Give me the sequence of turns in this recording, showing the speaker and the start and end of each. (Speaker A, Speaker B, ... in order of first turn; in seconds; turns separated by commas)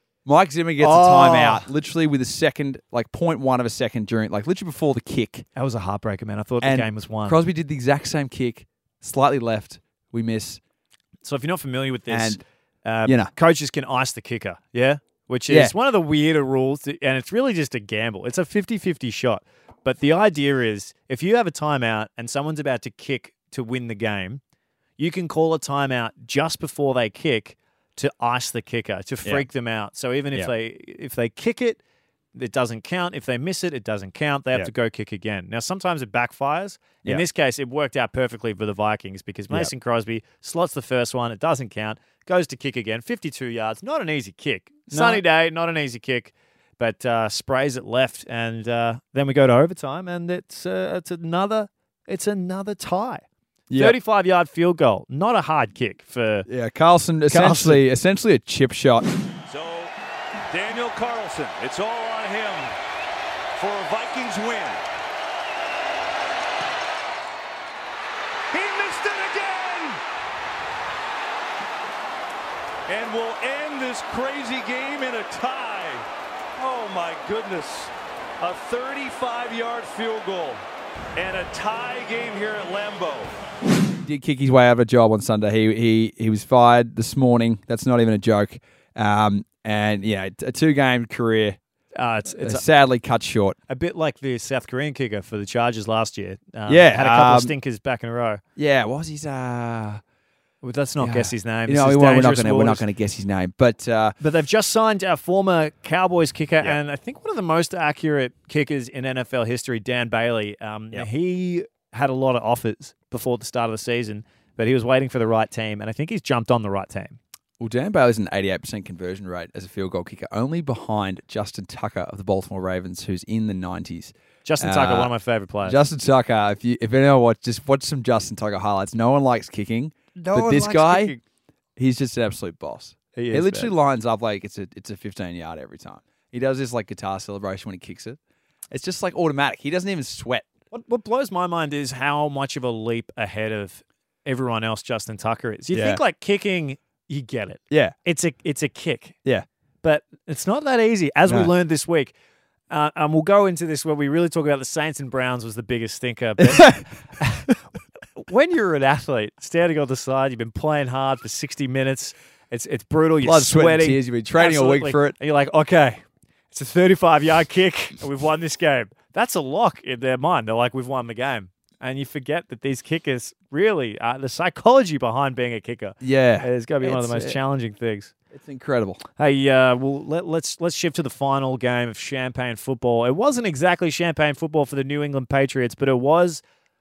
Speaker A: 0.3-5.5, Speaker B: 0.8-1.7, Speaker B: 5.5-7.4, Speaker A: 6.6-10.6, Speaker B: 11.2-24.4, Speaker A: 12.1-12.4, Speaker A: 13.1-13.3, Speaker A: 15.5-15.7, Speaker B: 25.0-31.8, Speaker B: 32.4-56.5, Speaker A: 44.9-45.2, Speaker A: 53.7-54.0, Speaker A: 56.5-59.1, Speaker B: 57.3-57.8, Speaker C: 59.5-59.9, Speaker C: 60.5-62.7, Speaker C: 63.6-64.8, Speaker C: 68.5-70.0, Speaker C: 72.9-76.0, Speaker C: 76.6-80.6, Speaker C: 81.2-83.3, Speaker A: 84.0-91.6, Speaker B: 92.0-92.7, Speaker A: 92.4-93.6, Speaker B: 93.7-98.4, Speaker A: 96.7-97.5, Speaker A: 98.6-100.0, Speaker B: 100.6-102.8, Speaker A: 101.0-104.2, Speaker B: 104.2-117.2, Speaker A: 117.6-125.1, Speaker B: 124.5-125.8, Speaker A: 125.6-131.2, Speaker B: 130.2-131.2, Speaker A: 131.8-138.2, Speaker B: 133.2-133.7, Speaker A: 138.7-140.5, Speaker B: 140.7-149.2, Speaker A: 145.7-146.0, Speaker A: 147.7-147.9, Speaker B: 149.8-152.1, Speaker B: 152.7-157.5, Speaker A: 156.4-156.8, Speaker B: 158.2-178.1, Speaker A: 163.2-165.2, Speaker A: 176.0-177.4, Speaker A: 178.3-179.0, Speaker B: 179.2-186.4